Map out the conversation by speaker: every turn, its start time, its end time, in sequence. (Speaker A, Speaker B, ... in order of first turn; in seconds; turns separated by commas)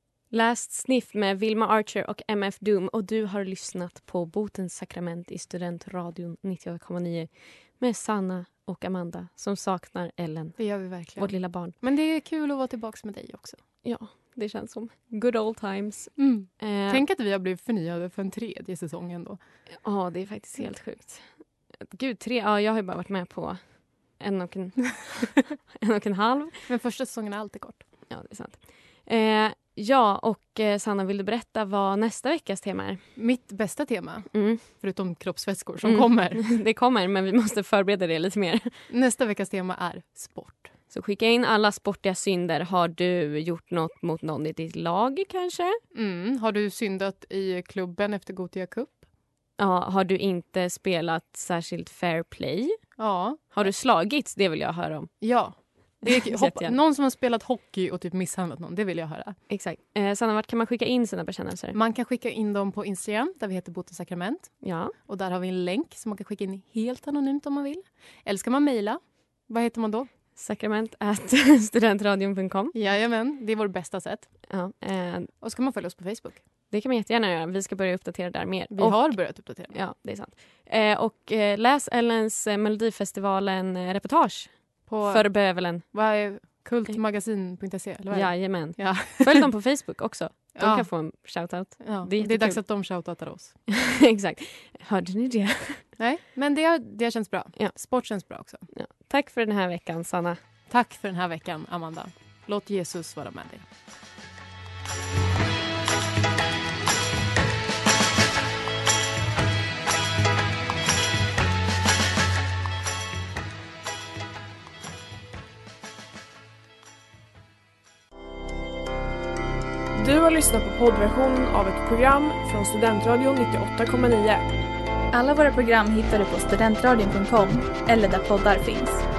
Speaker A: 0.3-11.7, Speaker B: 10.6-13.6, Speaker A: 13.8-17.0, Speaker B: 16.2-19.6, Speaker A: 19.8-26.6, Speaker B: 26.7-27.9, Speaker A: 28.1-33.0, Speaker B: 33.1-36.4, Speaker A: 34.3-34.6, Speaker A: 35.8-38.7, Speaker B: 38.9-40.7, Speaker A: 40.9-45.8, Speaker B: 45.9-49.1, Speaker A: 49.6-56.8, Speaker B: 53.0-53.7, Speaker B: 55.2-59.4, Speaker A: 59.5-61.8, Speaker B: 61.7-70.1, Speaker A: 64.6-64.9, Speaker A: 70.3-72.7, Speaker B: 72.7-74.5, Speaker A: 74.5-75.3, Speaker B: 75.4-76.5, Speaker A: 76.7-85.9, Speaker B: 78.7-79.8, Speaker B: 84.9-89.5, Speaker A: 88.1-93.1, Speaker B: 90.5-90.9, Speaker B: 91.8-93.6, Speaker A: 93.9-95.9, Speaker B: 96.0-98.7, Speaker A: 97.5-100.4, Speaker B: 100.7-103.6, Speaker C: 119.9-124.4, Speaker D: 125.1-129.0